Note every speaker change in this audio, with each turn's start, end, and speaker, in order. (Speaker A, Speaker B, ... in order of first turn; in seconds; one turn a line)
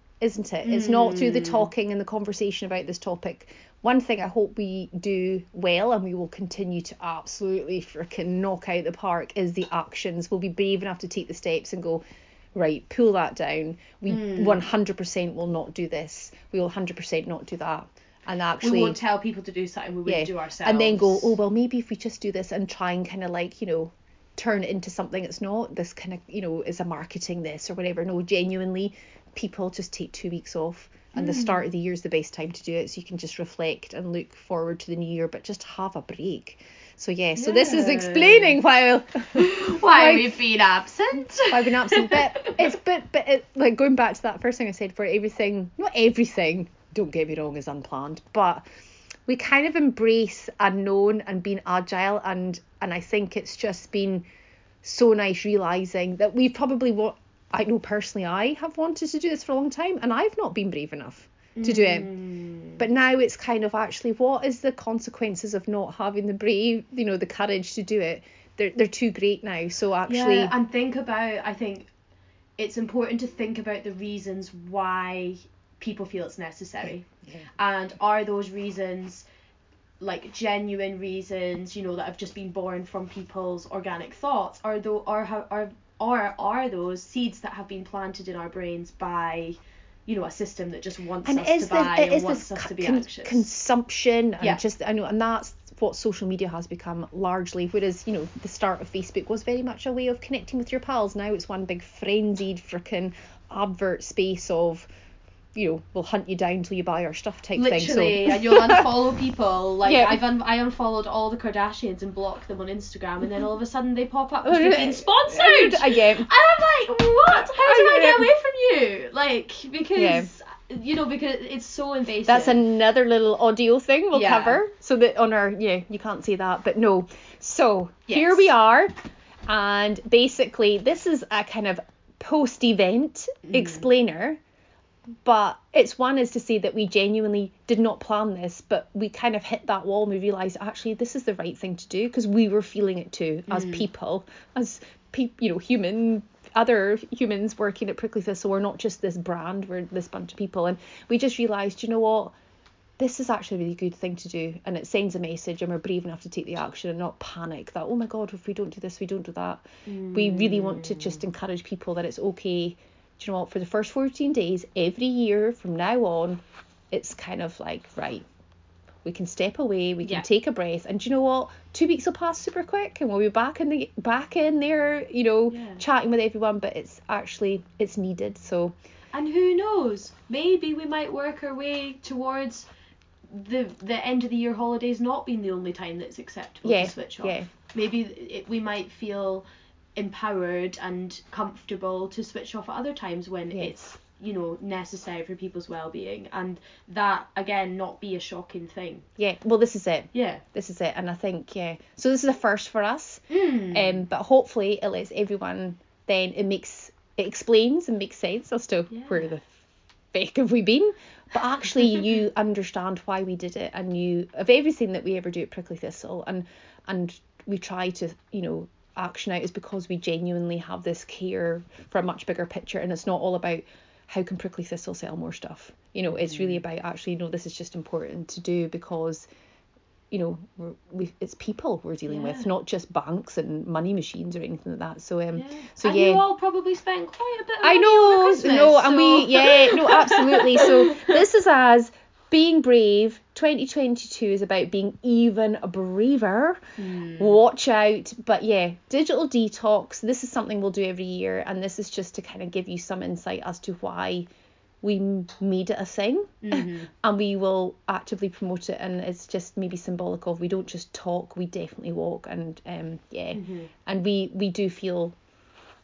Speaker A: 0.2-12.0
Speaker B: 0.6-1.7
Speaker A: 12.5-19.0
Speaker B: 14.1-14.6
Speaker B: 18.6-21.4
Speaker A: 20.1-40.4
Speaker B: 31.1-31.6
Speaker B: 37.4-38.6
Speaker B: 39.3-42.7
Speaker A: 41.5-48.6
Speaker A: 49.3-54.2
Speaker A: 54.8-62.1
Speaker B: 61.5-62.8
Speaker A: 62.8-70.5
Speaker B: 70.0-71.9
Speaker B: 72.6-79.2
Speaker A: 76.8-77.5
Speaker B: 80.0-93.5
Speaker A: 91.2-104.9
Speaker A: 105.5-108.9
Speaker B: 107.5-122.7
Speaker A: 109.8-110.2
Speaker A: 114.4-116.3
Speaker A: 117.5-118.3
Speaker A: 120.0-120.3
Speaker A: 122.2-128.9
Speaker B: 124.1-124.6
Speaker B: 128.1-128.5
Speaker A: 129.5-134.4
Speaker B: 133.4-133.8
Speaker A: 135.2-152.3
Speaker B: 143.5-143.9
Speaker A: 153.0-168.2
Speaker B: 159.8-161.2
Speaker A: 169.0-178.7
Speaker B: 170.0-170.3
Speaker B: 175.5-175.8
Speaker B: 179.1-182.7
Speaker B: 183.3-199.1
Speaker A: 186.6-187.5
Speaker A: 193.5-193.8
Speaker A: 199.2-209.5
Speaker B: 200.1-200.4
Speaker B: 203.3-204.0
Speaker B: 208.9-209.3
Speaker A: 210.1-229.3
Speaker B: 226.1-226.6
Speaker A: 230.1-236.2
Speaker B: 232.1-232.5
Speaker B: 235.3-241.2
Speaker A: 237.6-246.6
Speaker B: 246.8-247.4
Speaker A: 247.2-254.3
Speaker A: 254.8-265.1
Speaker B: 256.4-256.9
Speaker B: 263.3-263.7